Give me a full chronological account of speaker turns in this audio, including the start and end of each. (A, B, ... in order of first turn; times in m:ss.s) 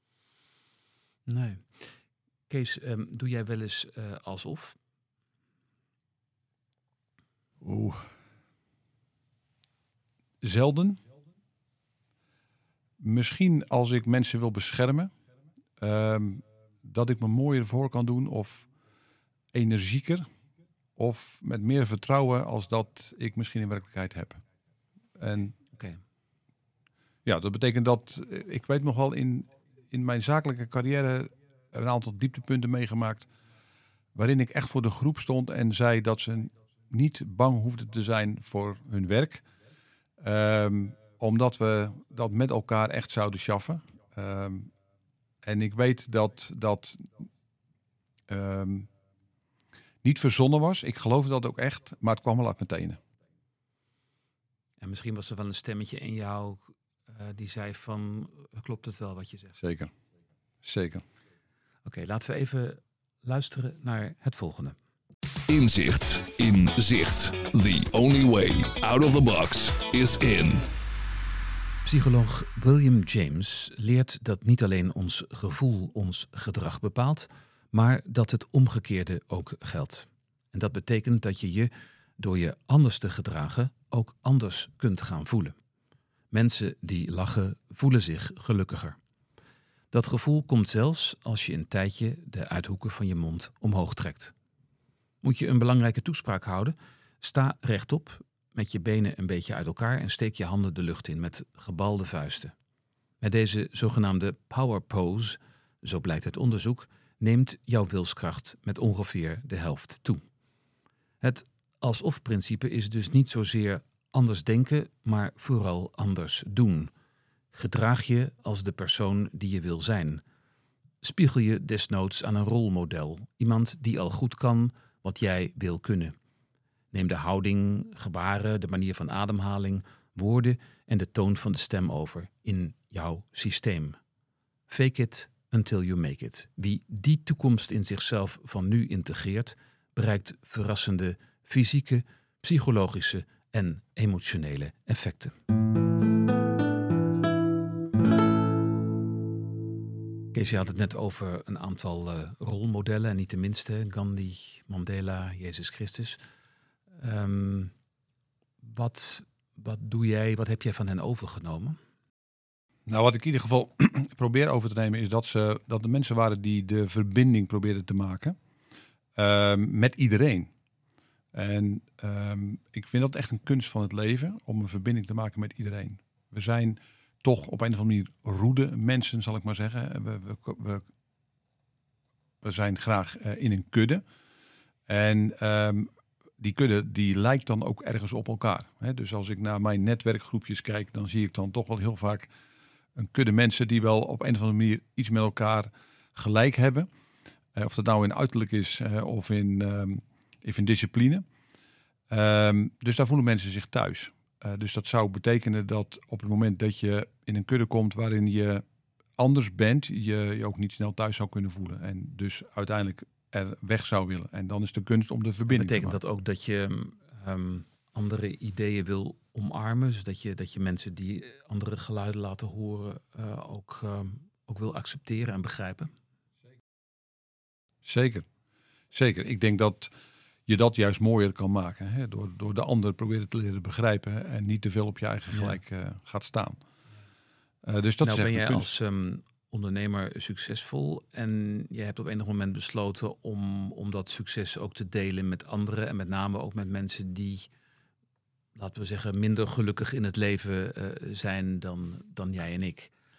0:01.3-0:02.0 A
0:02.5-0:04.8 A
0:07.6-0:08.1 B
0:10.4-0:11.0 B
0:13.0-0:15.1 B
0:15.8-0:18.7 B
0:19.5-0:20.3 B
0:21.0-0:24.4 B
0:25.2-0:25.6 B
0:25.7-0:26.0 A
0:27.2-0:33.3 B
0:34.1-0:39.4 B
0:40.2-0:44.7 B
0:45.4-0:47.3 B
0:48.3-0:48.9 B
0:50.0-0:53.0 B
0:54.8-0:59.6 A
0:59.6-0:59.9 B
1:00.6-1:01.0 B
1:01.9-1:04.8 A
1:05.5-1:10.6 C
1:11.8-1:25.6 A
1:26.3-1:29.0 A
1:29.9-1:34.3 A
1:35.2-1:42.5 A
1:43.2-1:50.2 A
1:51.2-1:56.9 A
1:57.5-2:00.2 A
2:01.0-2:06.2 A
2:06.9-2:14.0 A
2:14.7-2:25.4 A
2:30.3-2:36.2 A
2:37.0-2:37.7 A
2:38.6-2:41.8 A
2:42.9-2:48.4 B
2:49.1-2:50.5 B
2:51.3-3:00.9 B
3:02.4-3:04.0 B
3:04.9-3:12.3 B
3:13.0-3:16.9 B
3:17.5-3:21.2 B
3:22.1-3:28.6 B
3:29.2-3:36.0 B
3:35.5-3:45.9 A
3:47.8-3:48.2 B
3:48.9-3:49.9 B
3:50.5-3:56.6 B
3:55.3-3:55.6 A
3:57.6-3:58.7 B
3:58.0-4:07.5 A
4:08.6-4:12.9 A